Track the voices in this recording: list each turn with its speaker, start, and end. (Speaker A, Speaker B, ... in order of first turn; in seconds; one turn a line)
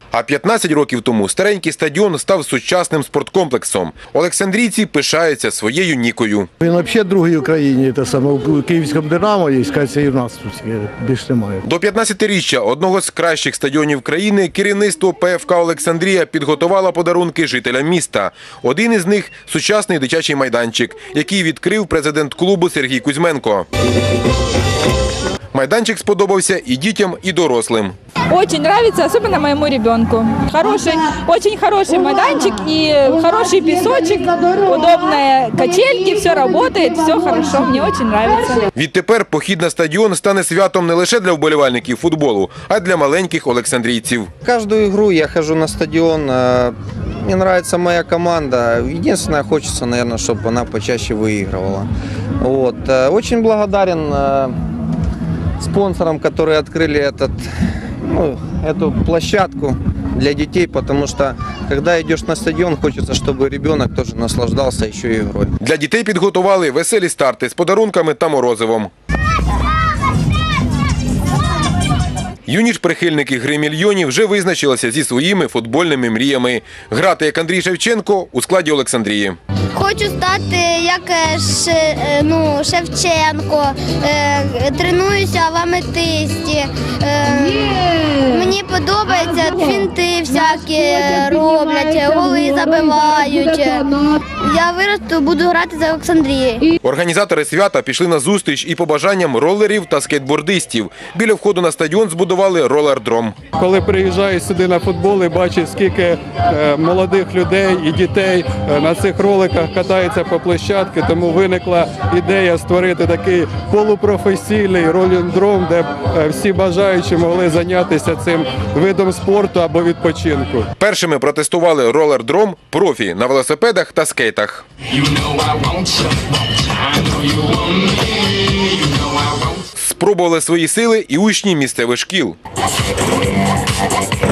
Speaker A: 0.1-6.5
Speaker B: 6.6-11.6
Speaker A: 11.7-23.7
Speaker A: 25.5-27.9
Speaker C: 28.3-38.6
Speaker A: 38.8-44.3
Speaker D: 44.4-51.9
Speaker D: 52.4-54.6
Speaker D: 55.6-57.4
Speaker D: 58.0-65.5
Speaker A: 65.6-68.9
Speaker A: 72.5-79.4
Speaker E: 79.7-93.9
Speaker E: 94.4-96.7
Speaker A: 96.8-103.3
Speaker F: 103.6-120.7
Speaker A: 120.8-124.7
Speaker A: 129.8-132.4